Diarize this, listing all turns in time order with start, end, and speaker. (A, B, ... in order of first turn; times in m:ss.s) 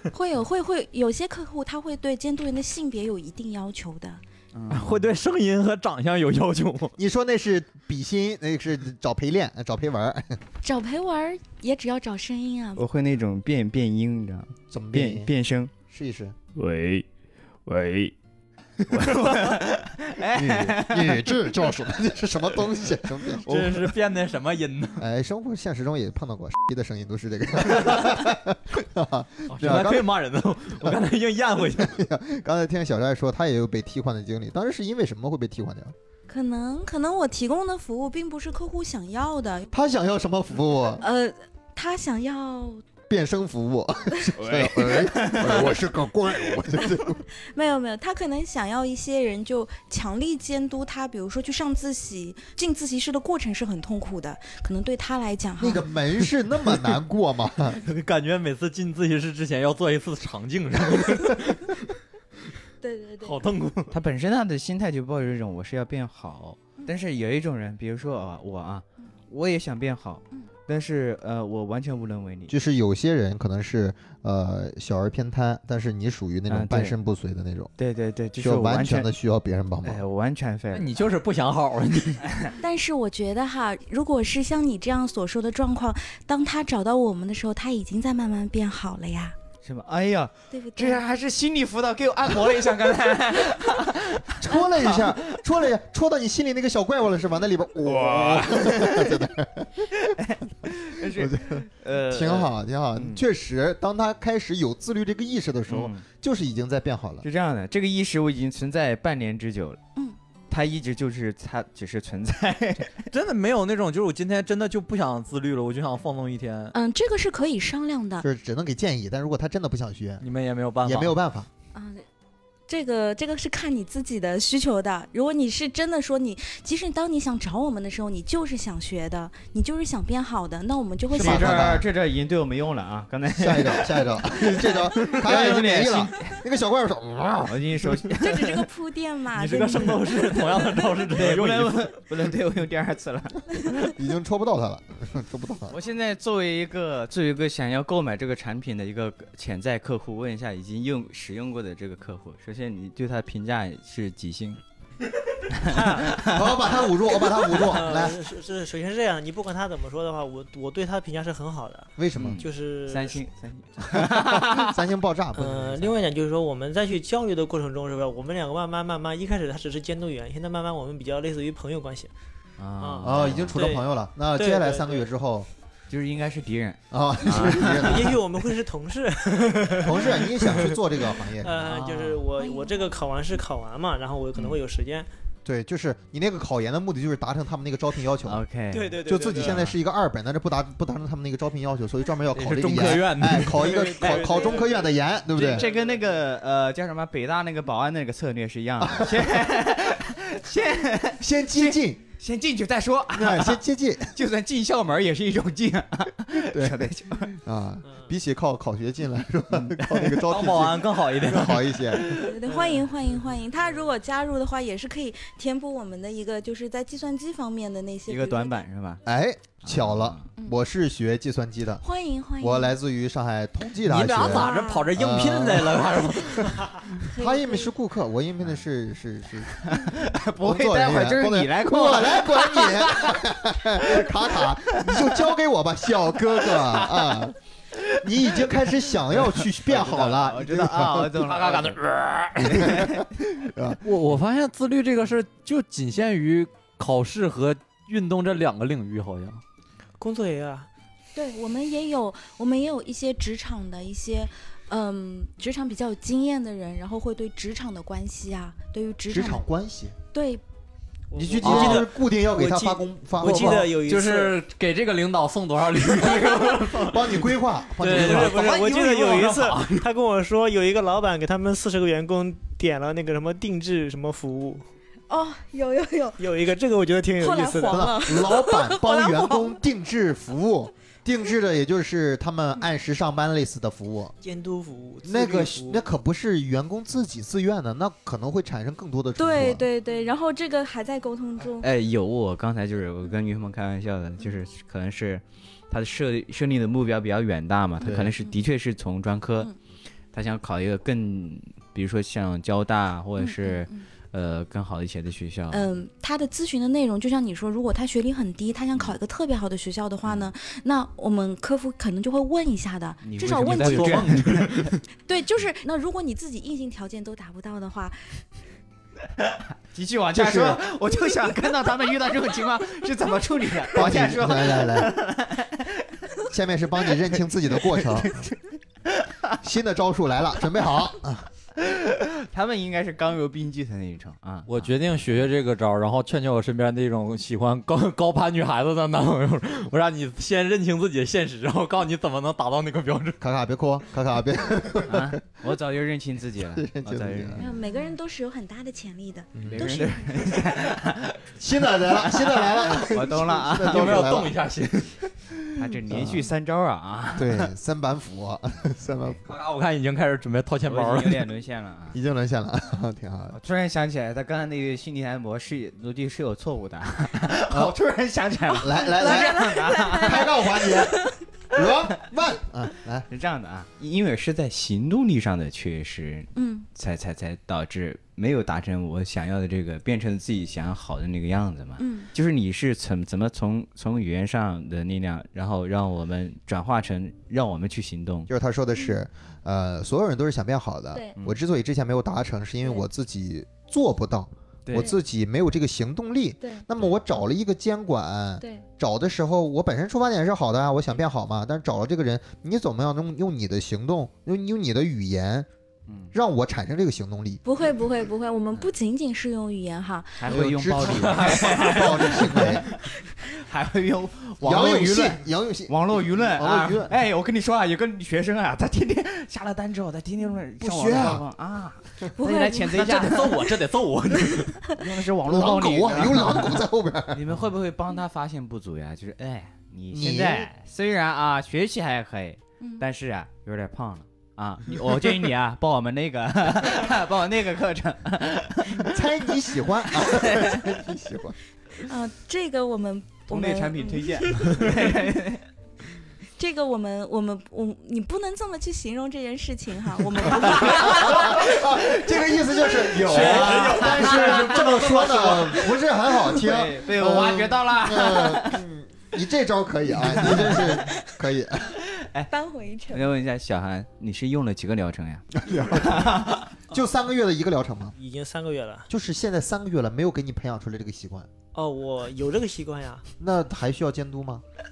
0:00.1-0:04.2 A
0:04.5-0:05.1 B
0:04.7-0:06.9 C
0:07.0-0:10.4 D
0:10.6-0:12.8 A
0:12.8-0:15.7 B
0:14.7-0:15.3 D
0:15.9-0:16.4 D
0:16.5-0:17.0 B
0:17.6-0:18.1 B
0:18.9-0:21.3 B
0:20.3-0:23.8 D
0:23.4-0:25.0 C
0:25.0-0:30.1 D
0:29.5-0:32.0 C
0:31.8-0:35.9 D
0:36.3-0:39.7 A
0:39.7-0:41.0 D
0:41.0-0:42.8 A
0:43.1-0:47.2 D
0:44.4-0:45.8 B
0:47.5-0:55.8 A
0:55.6-0:57.8 D
0:57.8-1:01.8 C
1:02.8-1:03.4 A
1:03.2-1:03.9 C
1:03.9-1:12.5 B
1:12.5-1:17.7 D
1:16.5-1:17.0 B
1:17.8-1:19.1 B
1:18.4-1:20.0 D
1:19.8-1:21.0 B
1:20.7-1:22.2 C
1:22.6-1:29.3 A
1:29.6-1:35.4 B
1:30.5-1:31.0 A
1:34.4-1:39.9 D
1:37.8-1:39.2 B
1:40.0-1:43.2 B
1:40.7-1:47.2 D
1:45.7-1:46.0 B
1:47.2-1:49.8 B
1:50.5-1:53.1 B
1:53.1-1:56.7 C
1:56.7-1:58.2 A
1:58.2-2:00.2 D
2:00.2-2:01.1 C
2:00.8-2:01.5 D
2:01.7-2:02.0 A
2:02.7-2:11.7 A
2:11.1-2:11.8 D
2:11.1-2:16.4 B
2:13.3-2:17.9 D
2:17.5-2:18.6 B
2:18.2-2:20.6 A
2:19.3-2:21.9 C
2:21.1-2:23.6 B
2:23.8-2:25.8 D
2:25.7-2:34.6 B
2:35.5-2:36.5 B
2:35.7-2:36.2 E
2:36.2-2:38.2 D
2:37.5-2:43.2 E
2:42.0-2:42.4 D
2:42.2-2:44.8 B
2:44.1-2:45.9 D
2:45.4-2:52.1 E
2:52.6-2:53.6 B
2:52.8-2:55.1 E
2:53.0-2:55.5 D
2:55.9-2:58.2 B
2:56.9-2:58.2 D
2:57.4-3:05.1 E
2:59.8-3:01.8 D
3:01.6-3:02.2 B
3:02.4-3:03.1 A
3:05.4-3:08.4 D
3:08.2-3:09.7 B
3:08.7-3:09.6 E
3:09.0-3:15.6 D
3:12.3-3:13.7 C
3:13.5-3:16.0 E
3:15.3-3:27.3 B
3:18.8-3:19.3 D
3:21.2-3:22.0 D
3:23.1-3:24.2 D
3:26.4-3:32.1 D
3:27.8-3:28.1 E
3:29.5-3:30.2 B
3:30.2-3:32.4 C
3:32.2-3:38.6 A
3:32.4-3:32.9 E
3:38.1-3:39.0 B
3:39.0-3:41.8 D
3:39.6-3:40.3 B
3:41.8-3:42.8 A
3:42.4-3:49.7 D
3:43.8-3:46.7 C
3:44.3-3:44.9 A
3:46.9-3:47.7 A
3:49.6-3:55.2 B
3:50.4-3:57.4 D
3:56.4-4:01.8 B
3:58.0-4:01.2 D
4:01.2-4:02.6 C
4:02.4-4:03.8 D
4:02.5-4:03.4 B
4:03.8-4:09.4 C
4:10.0-4:10.7 E
4:11.1-4:19.4 A
4:19.1-4:19.9 D
4:20.1-4:20.4 A
4:21.1-4:24.4 E
4:21.1-4:23.7 D
4:21.4-4:21.7 C
4:23.3-4:29.9 C
4:26.8-4:28.4 D
4:27.8-4:34.6 E
4:35.1-4:36.2 A
4:36.2-4:37.9 E
4:37.2-4:39.6 A
4:37.6-4:44.1 D
4:44.2-4:45.8 E
4:45.0-4:49.6 D
4:49.2-4:51.7 A
4:51.6-4:59.5 B
4:57.8-4:58.1 D
4:57.9-4:58.3 A
5:00.1-5:05.7 B
5:03.2-5:03.8 A
5:05.5-5:14.2 A
5:13.0-5:14.7 B
5:13.4-5:14.8 C
5:15.0-5:18.2 A
5:19.3-5:26.0 B
5:20.1-5:20.6 D
5:23.7-5:25.0 D
5:26.3-5:28.2 D
5:27.1-5:29.3 B
5:29.4-5:31.3 D
5:31.6-5:35.2 B
5:34.5-5:43.2 C
5:43.2-5:45.2 D
5:44.8-5:47.5 B
5:46.5-5:47.4 D
5:47.4-5:50.3 A
5:49.3-5:49.9 D
5:49.4-5:51.3 B
5:51.4-5:54.4 D
5:51.9-5:54.1 B
5:53.6-5:55.0 C
5:55.5-5:57.5 B
5:55.9-5:56.3 D
5:57.2-5:59.2 D
5:59.2-6:01.2 C
6:00.6-6:02.0 B
6:01.9-6:03.4 D
6:03.3-6:10.3 B
6:08.6-6:11.0 D
6:09.0-6:11.1 A
6:11.5-6:13.1 D
6:13.1-6:28.3 B
6:16.3-6:16.7 A
6:21.8-6:22.1 A
6:28.3-6:45.5 D
6:34.6-6:34.9 B
6:45.9-6:46.1 B
6:46.1-6:47.4 D
6:47.4-6:50.3 A
6:50.2-7:03.5 B
6:50.3-6:52.6 D
6:51.0-6:51.9 C
6:54.4-6:56.9 D
7:00.6-7:01.2 D
7:02.2-7:02.9 A
7:02.7-7:04.6 C
7:04.7-7:06.6 B
7:05.2-7:07.3 D
7:07.1-7:19.0 B
7:09.9-7:10.5 D
7:18.7-7:21.3 D
7:19.9-7:20.7 B
7:21.8-7:25.1 A
7:23.3-7:25.4 B
7:26.4-7:31.5 A
7:30.3-7:41.8 D
7:33.0-7:34.9 B
7:33.0-7:35.6 C
7:36.2-7:38.6 B
7:40.0-7:40.8 B
7:41.9-7:42.3 B
7:42.3-7:43.1 A
7:42.9-7:46.5 B
7:45.3-7:48.0 D
7:48.0-7:48.9 E
7:48.9-7:51.3 D
7:51.5-7:53.0 E
7:53.2-7:54.4 D